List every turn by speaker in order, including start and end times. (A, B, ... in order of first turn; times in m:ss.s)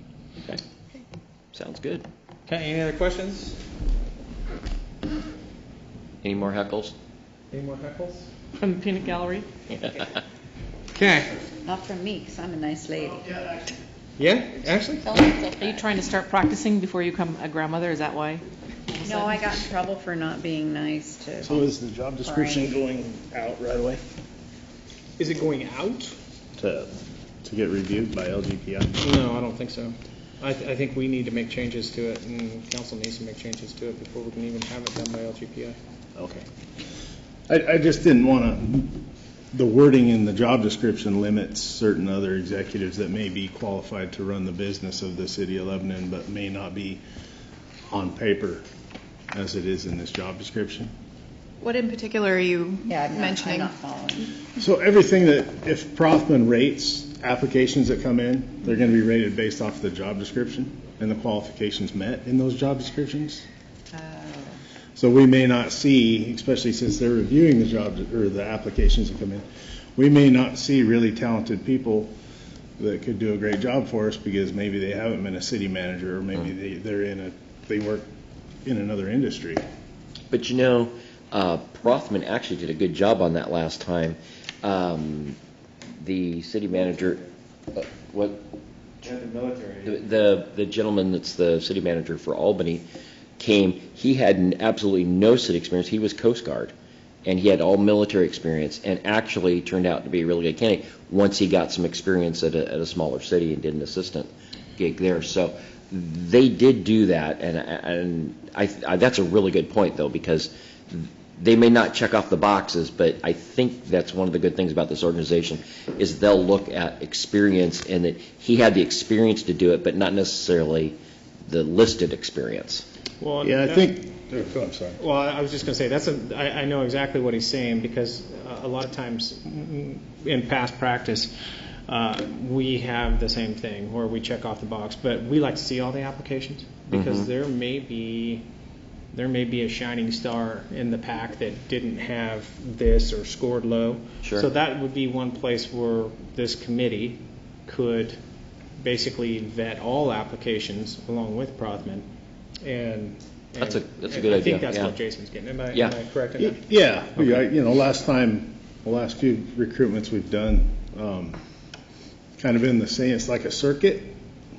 0:01.5-0:02.0 A
0:02.5-0:03.6 B
0:06.2-0:06.9 A
0:07.5-0:08.3 B
0:08.6-0:09.5 C
0:10.9-0:11.3 B
0:11.6-0:13.7 D
0:14.2-0:15.1 B
0:15.0-0:15.8 D
0:15.6-0:18.4 C
0:18.9-0:19.3 C
0:19.0-0:21.6 D
0:21.4-0:24.0 E
0:22.2-0:22.7 D
0:25.2-0:26.2 B
0:26.6-0:26.9 E
0:27.4-0:29.0 E
0:29.0-0:35.8 B
0:36.2-0:36.4 E
0:37.5-0:39.0 E
0:39.5-0:47.0 E
0:47.9-0:48.6 E
0:49.3-0:50.9 E
0:51.6-0:53.7 F
0:52.9-0:54.4 D
0:54.6-1:03.4 E
1:03.9-1:04.6 D
1:05.0-1:09.4 E
1:10.0-1:12.1 E
1:12.8-1:18.0 E
1:18.6-1:19.6 E
1:20.3-1:25.4 A
1:26.0-1:27.2 A
1:27.7-1:28.4 A
1:29.0-1:32.8 A
1:33.4-1:36.7 A
1:37.2-2:02.8 A
2:03.2-2:03.9 B
2:03.4-2:05.0 E
2:05.0-2:11.3 B
2:11.9-2:18.4 B
2:16.9-2:17.3 A
2:19.1-2:28.2 B
2:28.8-2:32.0 B
2:32.6-2:36.6 B
2:33.6-2:35.0 A
2:35.7-2:36.0 A
2:36.4-2:41.4 E
2:42.4-2:44.1 E